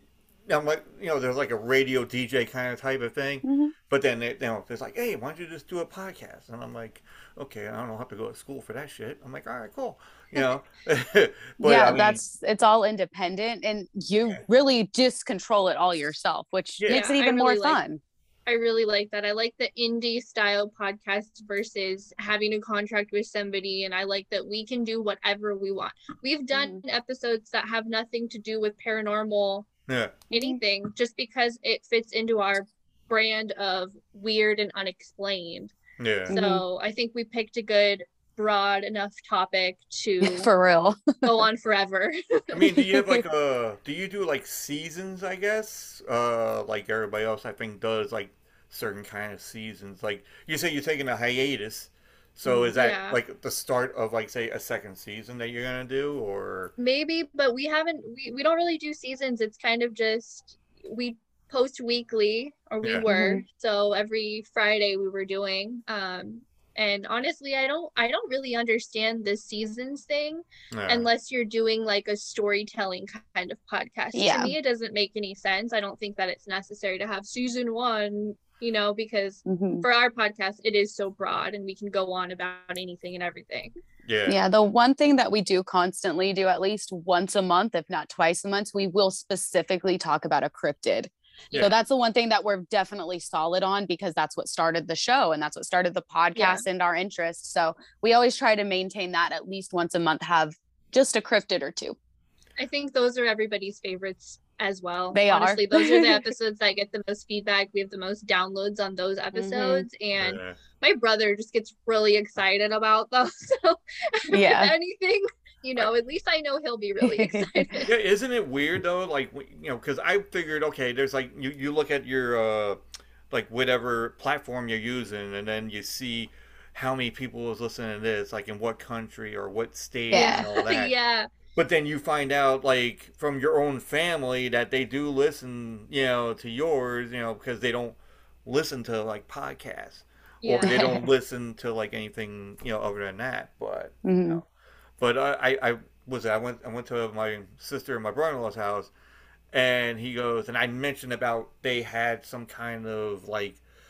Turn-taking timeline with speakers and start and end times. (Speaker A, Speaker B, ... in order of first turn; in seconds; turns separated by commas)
Speaker A: 0.5-12.2, Speaker B: 3.4-3.7, Speaker B: 11.6-18.0, Speaker A: 16.8-17.1, Speaker C: 16.9-17.8, Speaker C: 18.4-29.7, Speaker B: 26.5-26.8, Speaker A: 29.9-30.2, Speaker B: 30.3-30.6, Speaker C: 30.3-35.7, Speaker A: 36.0-36.4, Speaker B: 36.3-36.6, Speaker C: 36.3-40.5, Speaker B: 40.2-41.4, Speaker C: 41.2-42.5, Speaker A: 42.5-56.7, Speaker B: 42.8-43.2, Speaker B: 52.4-52.7, Speaker C: 52.8-53.2, Speaker C: 56.8-83.7, Speaker B: 63.0-63.4, Speaker A: 70.7-71.1, Speaker B: 74.1-74.5, Speaker B: 79.5-79.8, Speaker A: 84.0-84.4, Speaker B: 84.3-102.0, Speaker C: 96.3-96.6, Speaker C: 102.6-117.9, Speaker B: 105.1-106.3, Speaker B: 109.3-109.8, Speaker A: 110.2-110.6, Speaker B: 114.3-114.7, Speaker B: 117.0-117.7, Speaker A: 117.8-122.8, Speaker A: 123.3-130.9, Speaker B: 130.1-130.5, Speaker C: 130.1-131.3, Speaker A: 131.5-144.4, Speaker C: 140.4-140.8, Speaker B: 140.6-141.1, Speaker B: 144.0-144.4, Speaker A: 145.0-148.9, Speaker A: 149.5-153.6